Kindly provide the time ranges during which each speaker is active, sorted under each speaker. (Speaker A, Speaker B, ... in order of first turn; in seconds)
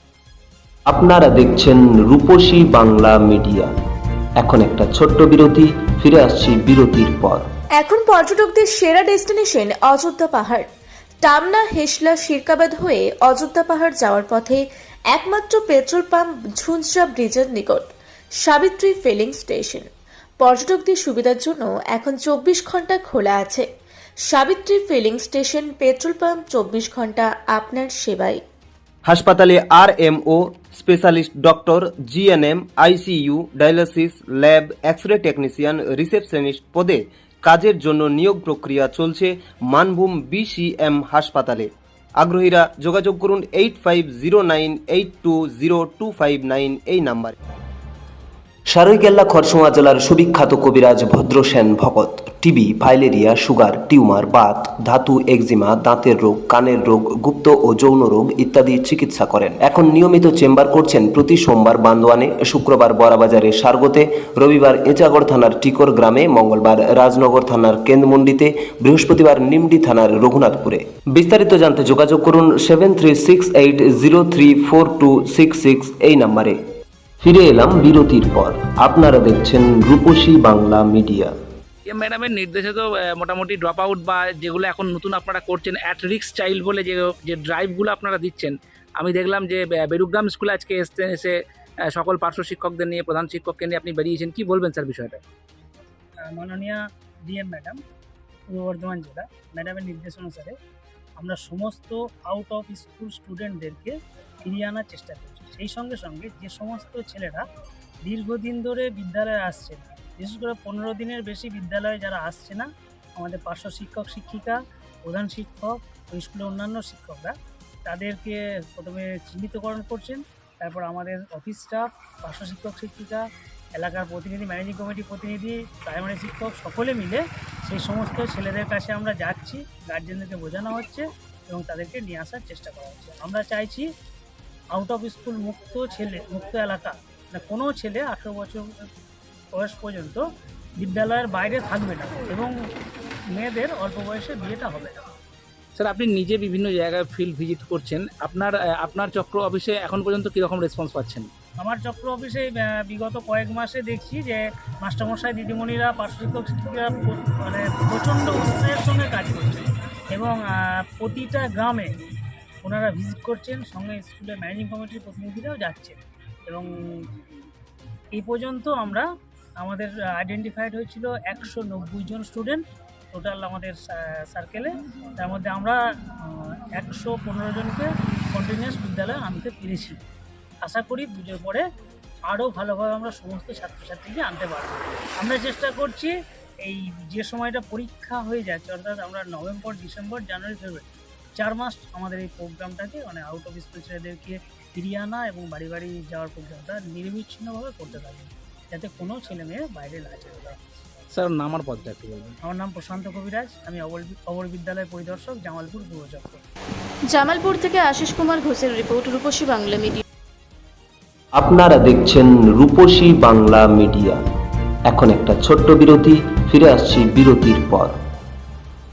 Speaker A: 0.9-3.7, 4.4-7.5, 29.1-47.4, 48.7-76.6, 77.2-81.3, 211.4-214.2, 214.8-217.9
Speaker B: 7.8-10.7, 11.2-17.9, 18.4-19.9, 20.4-23.7, 24.2-28.4
Speaker C: 81.9-91.3, 91.9-95.2, 145.8-151.3, 201.1-202.3
Speaker D: 96.3-96.8, 97.3-97.8, 98.5-100.5, 101.2-103.9, 104.4-107.4, 108.1-112.7, 113.2-117.3, 117.8-123.2, 123.8-133.8, 134.7-138.6, 139.5-140.2, 140.8-142.5, 143.4-144.9, 151.6-159.6, 160.1-161.9, 162.6-166.0, 168.1-169.0, 169.6-172.6, 173.1-173.8, 174.3-175.8, 176.8-180.0, 180.6-181.6, 182.3-186.1, 186.6-190.8, 191.4-200.5, 202.5-206.4
Speaker E: 207.1-210.0